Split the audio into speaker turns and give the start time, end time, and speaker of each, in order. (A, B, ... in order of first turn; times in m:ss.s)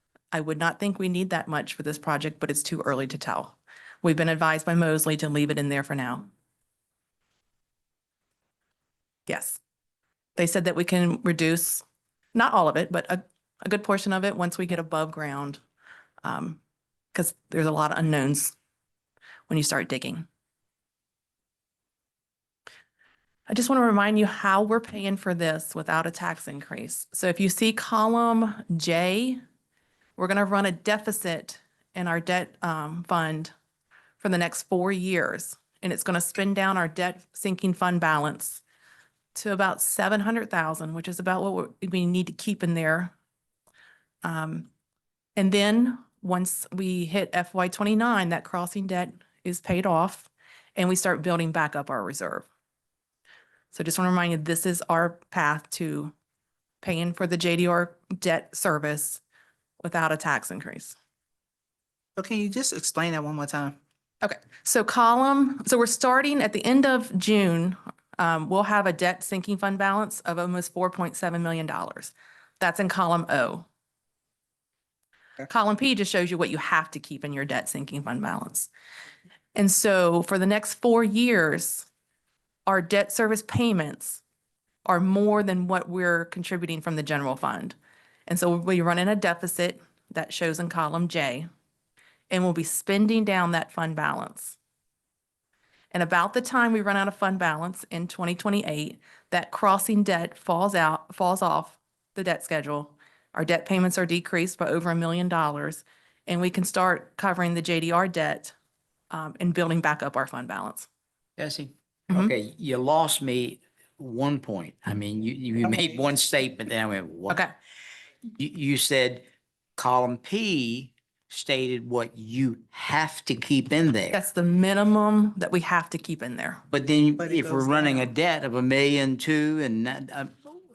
0:00.3-0:06.3 A
0:09.3-0:09.6 A
0:10.4-0:11.8 A
0:12.3-0:15.6 A
0:16.2-0:16.6 A
0:17.1-0:18.5 A
0:19.5-0:20.3 A
0:23.5-0:29.4 A
0:30.2-0:33.5 A
0:34.2-0:38.6 A
0:39.3-0:43.1 A
0:44.2-0:44.7 A
0:45.4-0:52.5 A
0:53.7-0:56.1 A
0:56.8-0:59.2 A
0:59.8-1:01.0 A
1:02.2-1:03.8 B
1:04.2-1:13.7 A
1:15.5-1:18.7 A
1:19.5-1:21.9 A
1:22.6-1:24.2 A
1:24.8-1:27.8 A
1:28.3-1:31.5 A
1:32.3-1:34.6 A
1:35.9-1:48.5 A
1:49.1-1:50.9 A
1:51.4-1:57.4 C
1:58.3-2:04.2 C
2:04.1-2:06.6 A
2:06.7-2:10.5 C
2:07.2-2:07.8 B